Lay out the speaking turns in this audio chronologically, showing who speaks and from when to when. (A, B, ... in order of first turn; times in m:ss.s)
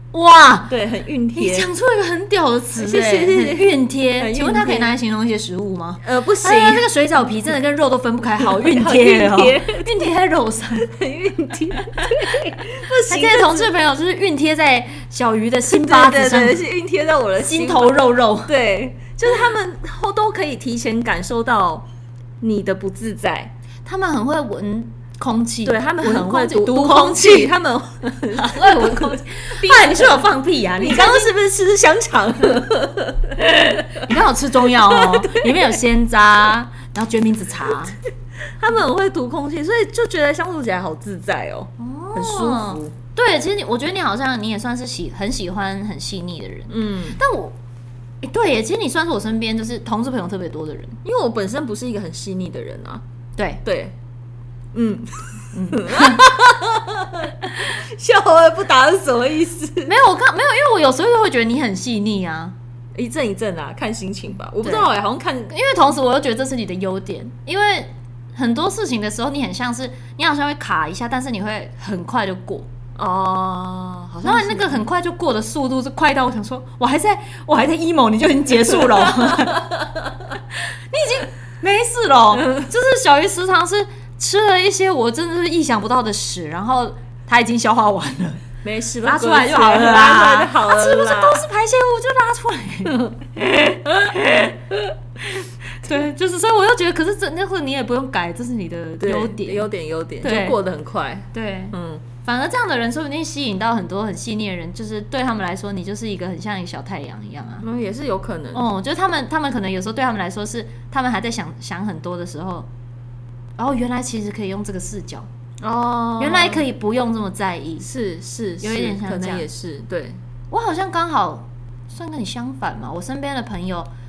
0:00.1-0:00.7 A
0:00.7-0:01.7 B
0:01.3-0:10.9 A
0:02.8-0:05.0 B
0:06.0-0:06.9 B
0:08.4-0:09.9 B
0:10.8-0:13.7 B
0:13.1-0:16.6 A
0:15.7-0:21.9 B
0:17.4-0:18.5 A
0:22.4-0:23.5 B
0:23.9-0:27.5 A
0:25.6-0:30.2 B
0:28.3-0:31.3 A
0:30.8-0:34.1 B
0:33.7-0:38.0 A
0:34.7-0:35.8 B
0:38.4-0:42.9 B
0:41.8-0:47.6 A
0:46.7-0:47.2 B
0:48.2-0:51.0 A
0:51.0-0:53.0 B
0:53.4-0:53.6 A
0:53.6-0:54.0 B
0:54.7-0:59.9 B
0:55.5-0:56.2 A
0:59.9-1:02.6 A
1:03.0-1:05.5 B
1:04.6-1:04.9 A
1:05.5-1:12.7 A
1:13.0-1:14.9 B
1:14.2-1:19.8 A
1:18.7-1:20.2 B
1:20.6-1:28.4 A
1:22.4-1:22.7 B
1:28.6-1:31.4 B
1:29.0-1:34.6 A
1:35.8-1:39.7 A
1:39.0-1:42.0 B
1:40.2-1:40.6 A
1:41.3-1:47.6 A
1:47.6-1:48.6 B
1:48.5-1:52.7 A
1:53.6-1:55.3 A
1:55.6-1:56.6 B
1:56.2-1:57.9 A
1:57.8-2:00.2 B
1:58.6-1:59.5 A
2:00.5-2:03.9 A